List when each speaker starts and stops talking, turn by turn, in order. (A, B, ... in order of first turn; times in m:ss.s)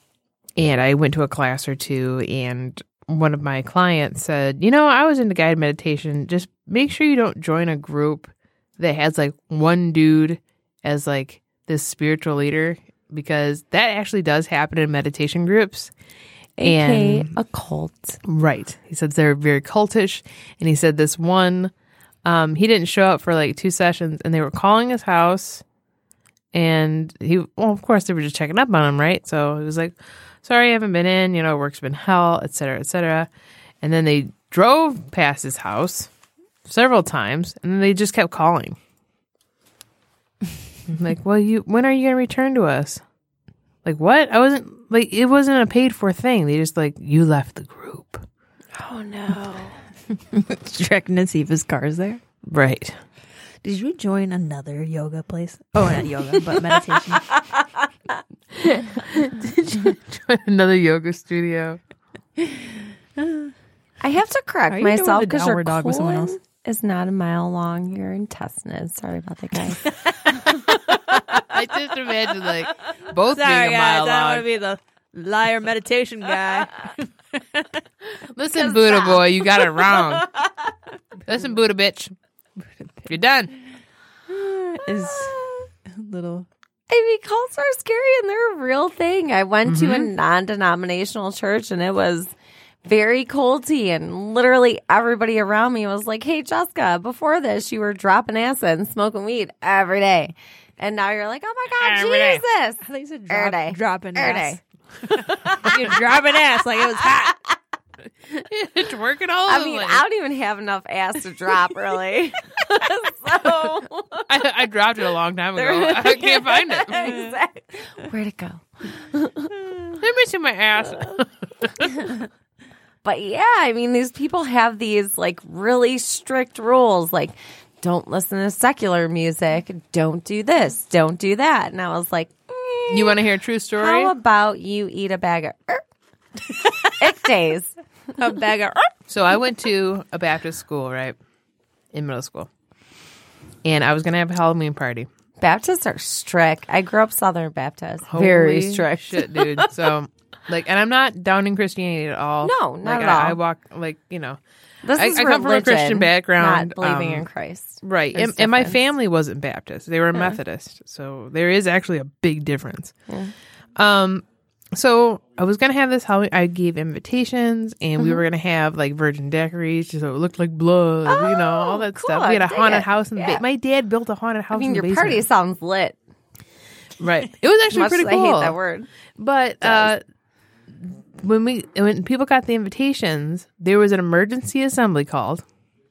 0:00.6-0:15.9 A
0:16.6-0:18.2 B
0:16.6-0:17.3 A
0:18.2-0:21.7 A
0:22.2-0:25.6 A
0:26.5-0:33.3 A
0:33.8-0:36.1 A
0:36.6-0:38.8 A
0:40.9-0:43.0 A
0:43.8-0:48.2 A
0:48.7-0:49.8 B
0:50.3-0:52.2 C
0:52.4-0:53.0 A
0:53.6-0:57.3 C
0:55.8-0:56.0 A
0:58.5-1:01.8 A
1:02.4-1:03.5 C
1:04.0-1:09.8 B
1:04.7-1:06.3 C
1:09.8-1:11.0 C
1:10.9-1:14.4 A
1:13.3-1:17.8 C
1:18.3-1:20.3 A
1:18.5-1:20.6 B
1:21.2-1:22.1 A
1:23.0-1:23.5 A
1:24.3-1:26.5 C
1:25.0-1:25.7 B
1:26.9-1:32.3 B
1:29.6-1:30.1 A
1:32.8-1:44.6 B
1:41.7-1:42.4 A
1:42.8-1:47.3 C
1:45.6-1:46.0 A
1:47.0-1:47.6 B
1:48.2-1:50.0 A
1:49.5-1:54.3 B
1:53.4-1:53.7 A
1:54.3-1:57.3 A
1:55.6-1:59.5 B
1:57.0-1:57.3 C
2:00.0-2:01.7 A
2:03.0-2:13.2 B
2:12.9-2:14.1 A
2:13.8-2:15.8 B
2:16.6-2:17.0 C
2:17.0-2:17.7 B
2:18.2-2:18.9 C
2:19.1-2:21.2 A
2:21.9-2:22.5 A
2:23.6-2:25.1 A
2:25.4-2:29.7 B
2:28.1-2:34.4 A
2:32.4-2:33.4 B
2:34.8-2:38.8 B
2:34.9-2:37.2 A
2:37.8-2:42.9 A
2:43.1-2:43.3 B
2:43.8-2:55.2 A
2:51.1-2:53.4 B
2:54.5-2:56.0 B
2:57.0-2:58.6 A
2:57.7-2:58.9 B
2:59.2-3:00.0 A
2:59.6-2:59.9 B
3:00.7-3:05.4 A